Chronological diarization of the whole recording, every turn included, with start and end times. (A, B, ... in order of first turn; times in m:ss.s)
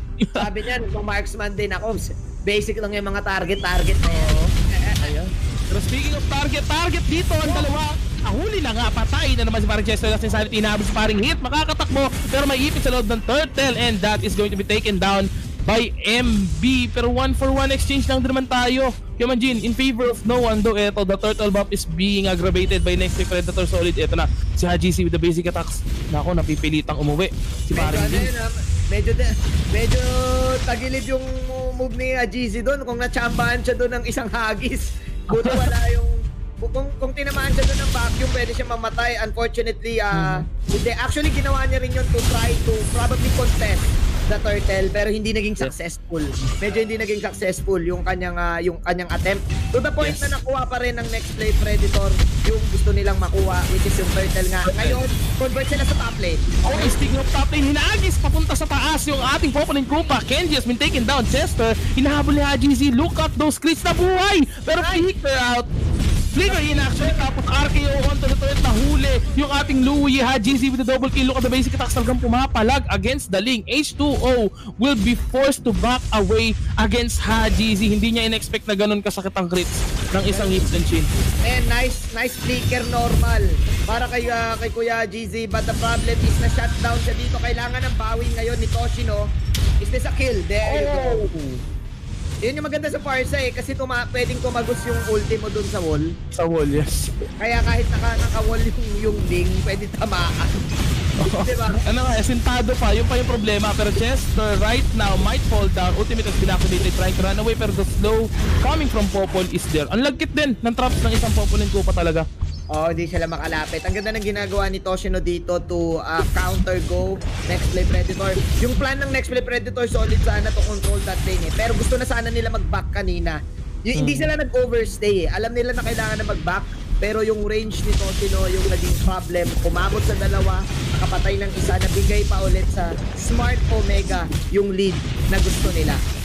0:00.4-0:05.1 A
0:04.0-0:04.5 B
0:05.0-0:28.3 B
0:07.4-0:07.7 A
0:27.7-0:57.0 A
0:35.3-0:35.6 B
0:40.1-0:40.4 B
0:50.0-0:50.3 B
0:54.7-0:55.0 B
0:56.6-1:05.7 B
1:04.8-1:05.0 A
1:06.3-1:21.1 B
1:06.4-1:07.3 A
1:20.3-1:20.6 A
1:21.4-1:29.2 A
1:29.8-1:31.2 A
1:30.6-1:31.6 B
1:32.4-1:36.1 A
1:36.3-1:37.2 B
1:37.4-1:40.6 A
1:41.2-1:52.2 B
1:41.3-1:41.8 A
1:52.7-2:16.0 A
2:03.9-2:04.3 B